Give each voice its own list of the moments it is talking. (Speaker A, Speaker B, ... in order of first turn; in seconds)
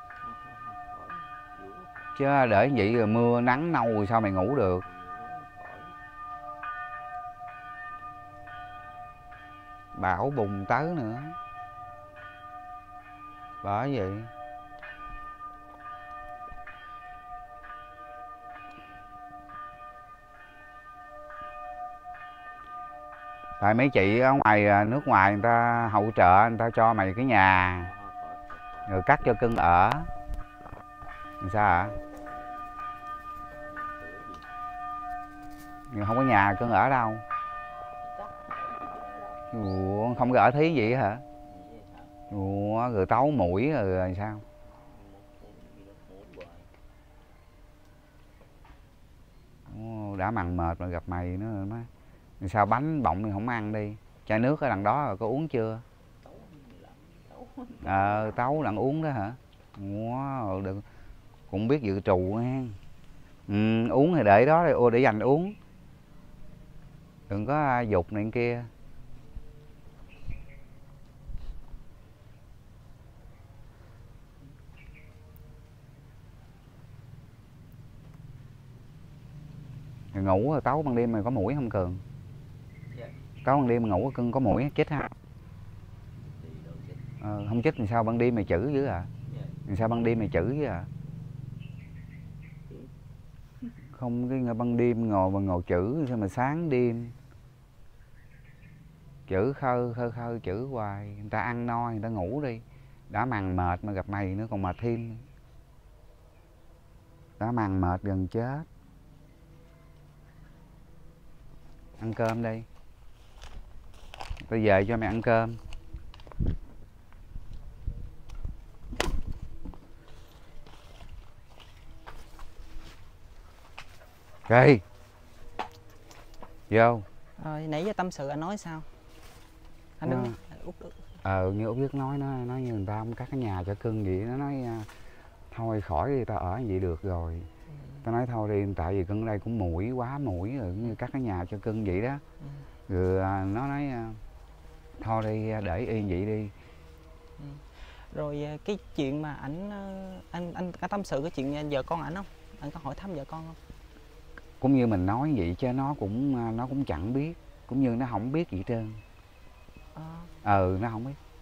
Speaker A: 0.2-2.1, 4.8-5.9, 27.8-28.9, 33.5-34.5, 38.0-39.4, 41.5-42.1, 44.6-46.7, 56.2-58.5, 86.2-87.0, 89.3-89.6
Speaker B: 2.2-4.8, 10.0-11.4, 13.6-14.3, 23.6-27.9, 28.9-30.1, 31.4-31.9, 35.9-37.2, 39.5-41.2, 42.3-44.5, 49.7-51.9, 52.4-55.8, 57.8-60.8, 61.5-62.8, 63.5-65.5, 67.3-68.7, 80.1-82.0, 83.4-85.1, 87.2-89.1, 89.7-90.9, 93.9-97.1, 99.3-105.3, 107.4-108.7, 112.0-112.7, 114.5-115.6, 124.5-124.8, 126.7-127.1, 130.0-130.4, 131.2-134.9, 135.5-137.5, 138.0-142.2, 142.9-144.2, 145.0-146.5, 154.6-159.0, 160.4-161.2
Speaker C: 127.4-128.9, 130.0-131.0, 137.7-138.1, 147.4-153.6, 159.9-160.3